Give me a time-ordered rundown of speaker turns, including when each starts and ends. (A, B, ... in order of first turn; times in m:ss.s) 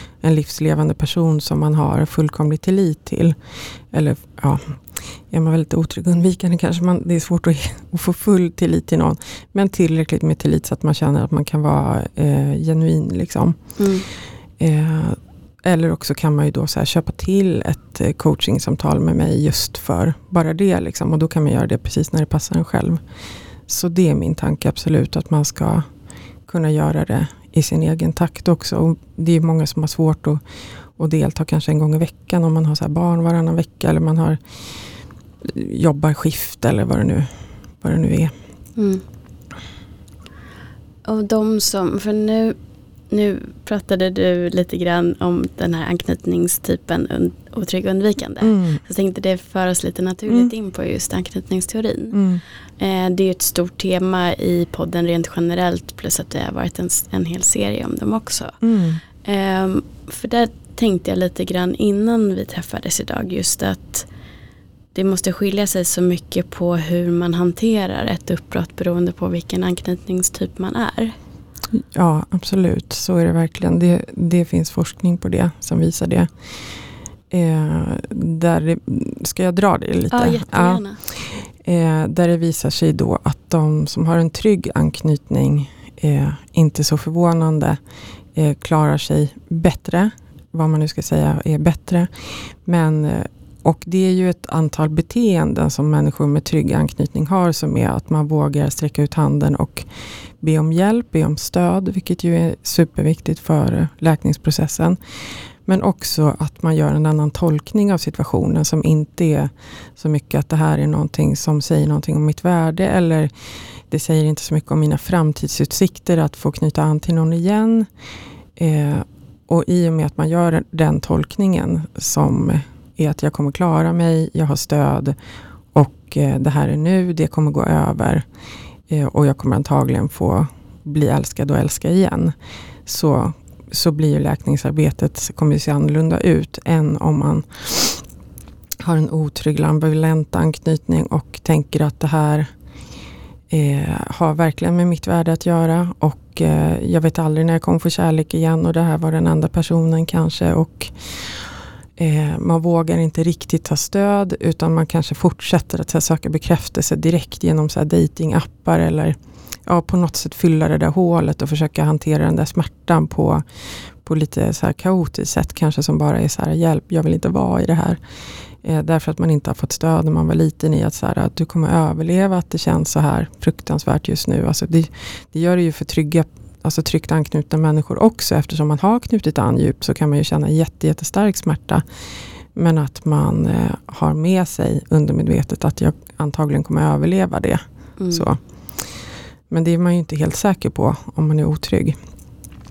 0:00.2-0:03.4 A
0:03.9-0:13.6 A
0:13.8-0:14.1 B
0:14.6-0:23.0 A
0:23.7-0:25.8 A
0:26.5-0:30.4 A
0:31.0-0:34.4 A
0:35.4-0:37.3 A
0:37.8-0:38.3 A
0:38.8-0:39.0 B
0:41.1-0:42.6 B
0:43.1-0:52.2 B
0:48.4-0:48.8 A
0:52.1-0:52.4 A
0:52.8-0:58.6 B
0:58.6-0:59.0 A
0:59.2-1:04.1 B
1:04.9-1:11.2 B
1:11.7-1:16.3 A
1:17.3-1:27.8 A
1:20.1-1:21.0 B
1:28.4-1:32.1 A
1:32.6-1:39.9 A
1:40.4-1:45.0 A
1:45.7-1:53.3 A
1:53.9-1:57.9 A
1:58.6-2:05.2 A
2:05.7-2:08.2 A
2:08.9-2:12.3 A
2:12.9-2:18.0 A
2:18.8-2:22.5 A
2:23.5-2:43.4 A
2:44.0-2:48.0 A
2:48.6-3:01.8 A
3:02.6-3:08.4 A
3:08.0-3:08.3 B
3:09.5-3:12.0 A